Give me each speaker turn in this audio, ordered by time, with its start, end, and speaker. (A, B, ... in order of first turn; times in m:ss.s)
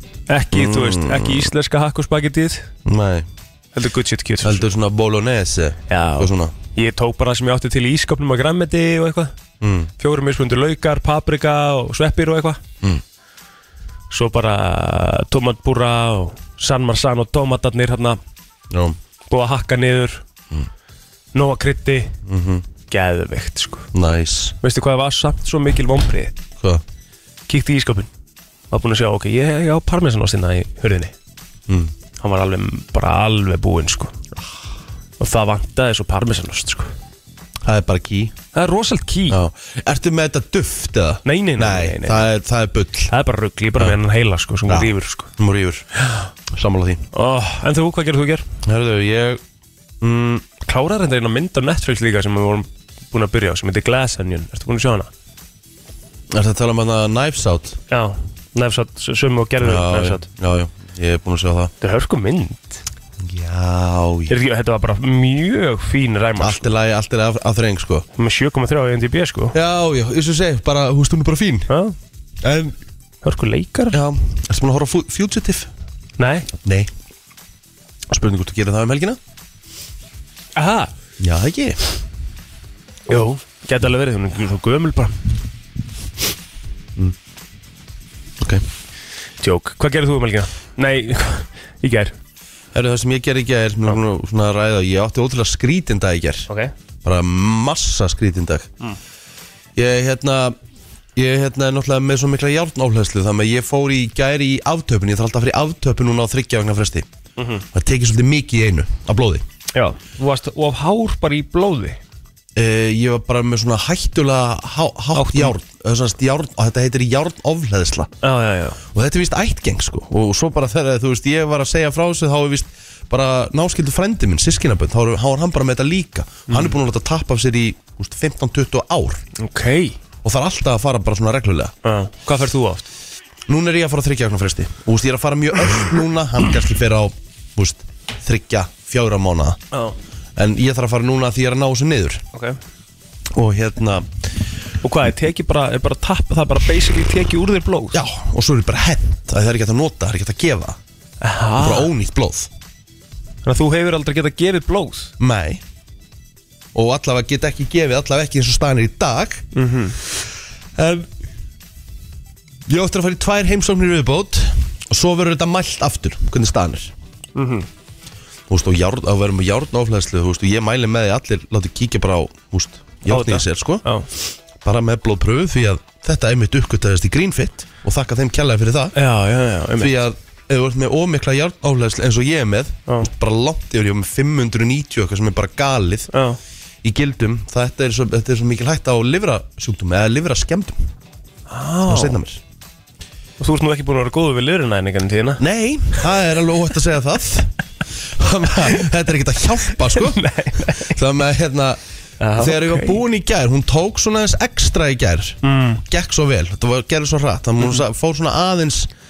0:00.3-0:02.7 A
0:00.5-0:01.5 B
0:02.8-0:03.3 B
0:03.7-0:04.7 A
0:04.4-0:06.5 B
0:05.9-0:09.3 A
0:09.6-0:09.9 B
0:10.0-0:12.6 A
0:14.1-0:18.2 A
0:18.7-0:19.0 B
0:19.3-0:20.2 A
0:21.3-0:22.1 A
0:22.2-0:22.6 B
0:22.9-0:23.9 A
0:23.9-0:24.6 B
0:24.6-0:26.3 A
0:27.5-0:28.1 A
0:28.7-0:31.1 A
0:31.7-0:31.9 B
0:32.2-0:34.1 A
0:35.2-0:36.9 A
0:37.6-0:38.3 B
0:38.5-0:39.4 A
0:39.3-0:43.1 B
0:41.2-0:42.3 A
0:43.1-0:45.3 A
0:44.7-0:45.8 B
0:46.5-0:47.0 B
0:47.1-0:48.4 A
0:48.6-0:49.4 B
0:50.0-0:50.4 B
0:50.6-0:55.1 A
0:56.3-0:57.8 B
0:57.9-1:00.3 A
0:59.6-1:01.7 B
1:01.8-1:02.8 A
1:03.2-1:04.3 B
1:04.3-1:06.7 A
1:06.4-1:08.0 B
1:08.2-1:09.5 A
1:09.5-1:11.7 B
1:11.7-1:12.0 A
1:12.4-1:12.7 B
1:13.2-1:14.0 A
1:13.9-1:15.7 B
1:16.2-1:16.5 A
1:16.6-1:16.9 B
1:18.1-1:19.2 B
1:20.6-1:20.9 A
1:21.2-1:21.8 B
1:23.1-1:25.3 A
1:28.4-1:28.6 B
1:29.4-1:32.1 A
1:32.7-1:36.5 B
1:37.0-1:38.7 B
1:39.8-1:40.6 B
1:41.2-1:47.1 B
1:47.4-1:47.6 A
1:47.7-1:49.4 B
1:49.7-1:52.0 A
1:52.5-1:58.1 B
1:55.1-1:55.5 A
1:58.2-1:58.8 A
1:58.9-2:09.2 B
2:06.5-2:06.8 A
2:09.4-2:10.0 A
2:10.2-2:11.7 B
2:11.8-2:12.9 A
2:13.5-2:19.6 B
2:20.4-2:22.2 B
2:23.3-2:24.1 B
2:24.8-2:28.0 A
2:27.9-2:30.8 B
2:31.2-2:31.9 A
2:31.6-2:32.5 B
2:33.4-2:35.1 A
2:35.2-2:35.6 B
2:36.7-2:39.4 B
2:39.5-2:40.0 A
2:40.8-2:41.1 B
2:42.7-2:46.9 B
2:47.3-2:47.7 A
2:48.5-2:53.8 B
2:53.1-2:54.0 A
2:54.6-2:58.9 B
2:58.9-3:00.0 A
2:59.8-3:06.1 B
3:06.1-3:06.4 A
3:06.8-3:10.8 B
3:11.5-3:12.2 A
3:11.8-3:12.4 B
3:13.4-3:15.4 A
3:15.4-3:17.5 B
3:18.0-3:20.2 B
3:19.9-3:20.9 A
3:20.8-3:21.8 B
3:22.2-3:23.0 A
3:22.4-3:28.9 B
3:25.4-3:25.8 A